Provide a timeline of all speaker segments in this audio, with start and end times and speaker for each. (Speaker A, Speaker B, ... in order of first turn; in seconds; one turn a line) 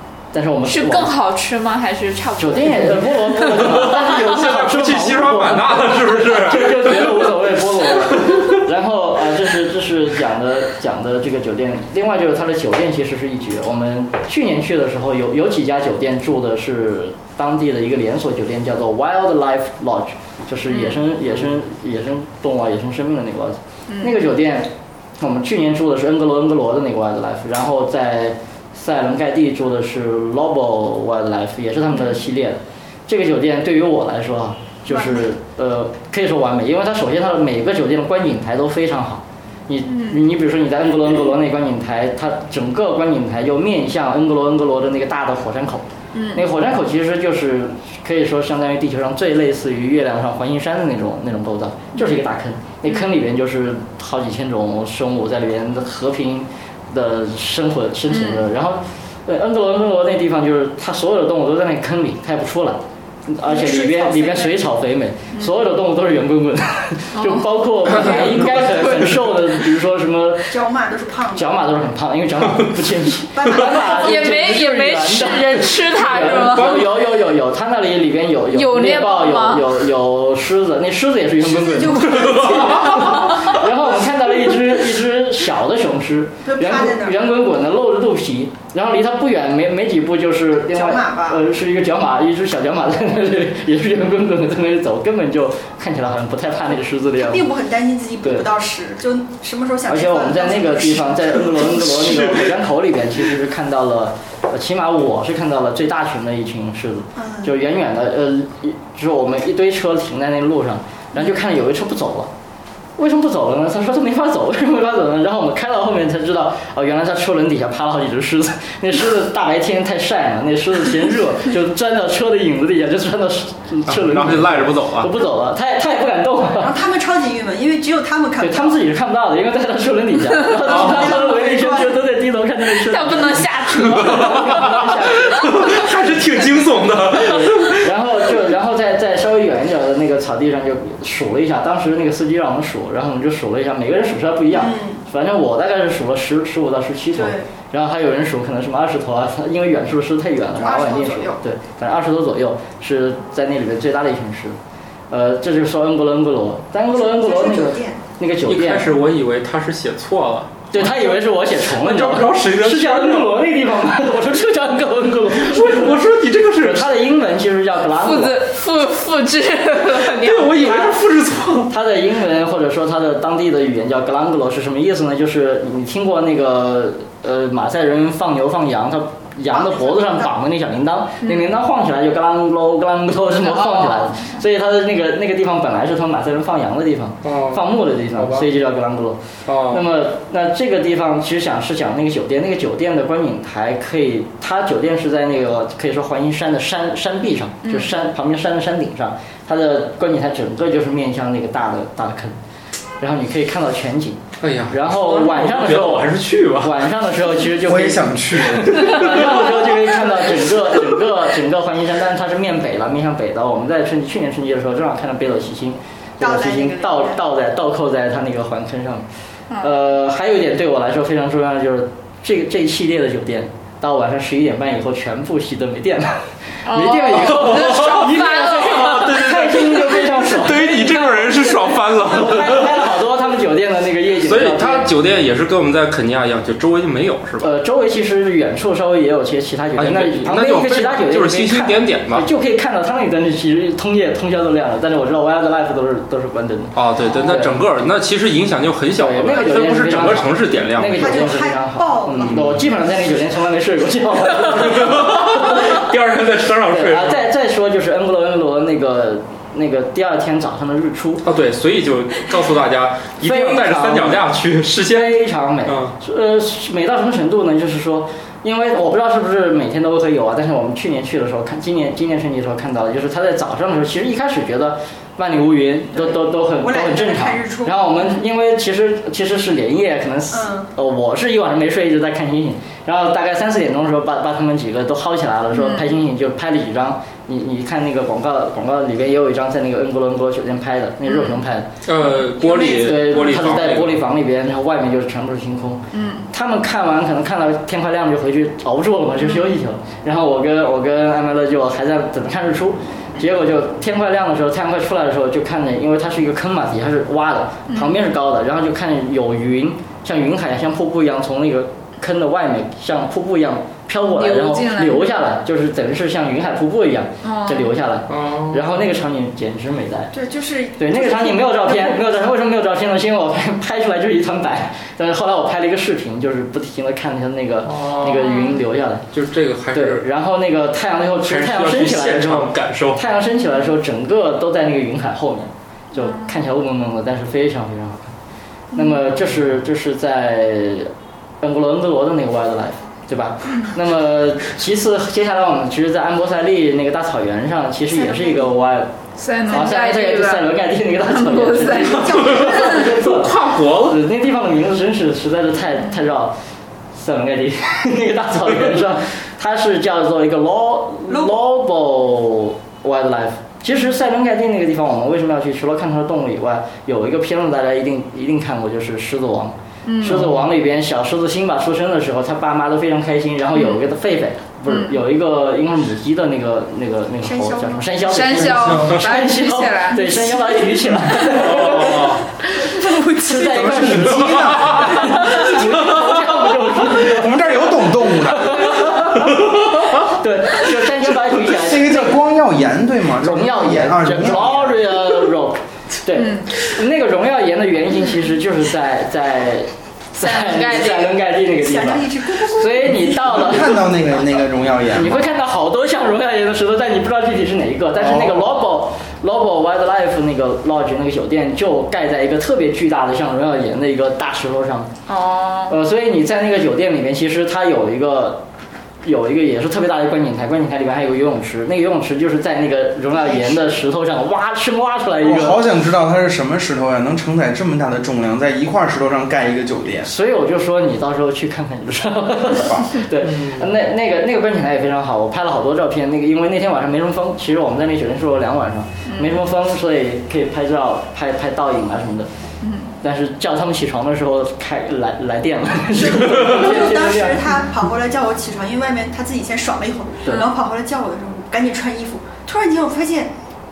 Speaker A: 0.3-1.1
Speaker B: 0.6-3.8
Speaker A: 2.4-70.5
Speaker C: 3.5-8.6
Speaker B: 20.7-21.0
Speaker B: 23.9-24.1
Speaker B: 39.9-40.2
Speaker B: 46.1-46.4
Speaker B: 58.1-58.4
Speaker D: 63.5-64.6
Speaker B: 67.1-69.1
Speaker D: 70.5-71.6
Speaker A: 71.3-97.5
Speaker D: 73.3-74.4
Speaker B: 73.8-76.9
Speaker C: 76.4-76.8
Speaker B: 78.5-79.8
Speaker D: 81.5-83.3
Speaker C: 82.2-83.0
Speaker D: 86.5-87.2
Speaker D: 90.7-91.4
Speaker D: 97.2-101.6
Speaker A: 99.9-112.3
Speaker C: 101.6-102.5
Speaker D: 107.2-107.5
Speaker A: 113.0-126.7
Speaker C: 123.9-125.1
Speaker D: 126.6-128.8
Speaker A: 128.4-135.5
Speaker D: 130.6-132.0
Speaker C: 130.7-131.1
Speaker B: 132.8-134.8
Speaker C: 133.8-137.9
Speaker A: 137.2-154.6
Speaker D: 144.5-145.0
Speaker D: 147.2-147.5
Speaker D: 150.6-151.4
Speaker A: 155.1-158.9
Speaker D: 156.9-158.0
Speaker C: 158.4-163.4
Speaker A: 160.7-166.0
Speaker C: 165.4-166.9
Speaker A: 166.6-168.4
Speaker B: 167.9-170.9
Speaker C: 170.1-171.7
Speaker A: 171.7-202.3
Speaker D: 179.5-180.3
Speaker B: 181.2-181.5
Speaker B: 183.4-184.3
Speaker C: 187.2-188.5
Speaker C: 189.5-189.9
Speaker B: 197.6-197.9
Speaker A: 203.0-219.1
Speaker C: 204.4-206.8
Speaker E: 207.6-209.2
Speaker C: 208.6-209.9
Speaker D: 216.2-217.2
Speaker A: 219.6-234.9
Speaker B: 226.7-229.1
Speaker C: 227.2-232.9
Speaker C: 234.2-237.5
Speaker A: 237.4-247.6
Speaker C: 239.8-242.3
Speaker C: 246.8-251.3
Speaker A: 249.0-255.8
Speaker D: 251.0-252.4
Speaker C: 252.2-252.7
Speaker C: 254.3-257.3
Speaker A: 256.7-261.2
Speaker C: 261.2-266.0
Speaker A: 263.2-264.3
Speaker A: 264.8-320.1
Speaker D: 276.0-277.9
Speaker D: 280.3-280.7
Speaker B: 285.5-285.9
Speaker B: 291.1-291.4
Speaker C: 291.9-294.0
Speaker B: 295.9-296.3
Speaker B: 299.2-299.5
Speaker B: 307.7-308.0
Speaker B: 314.2-315.1
Speaker B: 317.2-317.7
Speaker C: 318.1-318.7
Speaker D: 320.1-322.2
Speaker A: 320.8-329.1
Speaker C: 327.6-328.4
Speaker B: 328.2-328.6
Speaker C: 329.1-330.1
Speaker A: 329.7-338.1
Speaker C: 331.2-333.0
Speaker B: 336.0-336.3
Speaker A: 338.7-340.9
Speaker B: 338.7-339.0
Speaker A: 341.4-348.9
Speaker D: 347.9-348.5
Speaker B: 349.2-352.8
Speaker A: 349.5-356.4
Speaker D: 351.6-352.6
Speaker C: 351.9-354.0
Speaker A: 356.9-392.2
Speaker D: 361.1-361.4
Speaker B: 369.9-370.3
Speaker C: 370.1-370.4
Speaker B: 374.7-375.0
Speaker D: 377.2-378.2
Speaker B: 378.0-380.1
Speaker C: 378.7-379.0
Speaker D: 380.0-382.1
Speaker C: 381.3-382.2
Speaker D: 382.6-383.8
Speaker E: 382.9-385.6
Speaker C: 384.3-385.1
Speaker D: 385.1-385.5
Speaker C: 385.7-386.3
Speaker E: 386.9-388.9
Speaker C: 389.1-390.0
Speaker E: 391.4-394.8
Speaker A: 393.2-403.9
Speaker B: 396.1-396.5
Speaker B: 400.2-401.2
Speaker D: 401.6-403.5
Speaker E: 403.2-405.2
Speaker A: 404.9-414.9
Speaker E: 408.0-408.4
Speaker B: 415.1-415.8
Speaker A: 415.7-418.4
Speaker A: 419.0-425.6
Speaker D: 423.1-423.6
Speaker E: 425.2-430.1
Speaker A: 430.0-442.3
Speaker C: 433.2-433.7
Speaker B: 439.1-439.4
Speaker B: 442.6-442.9
Speaker A: 443.0-447.5
Speaker D: 445.9-453.3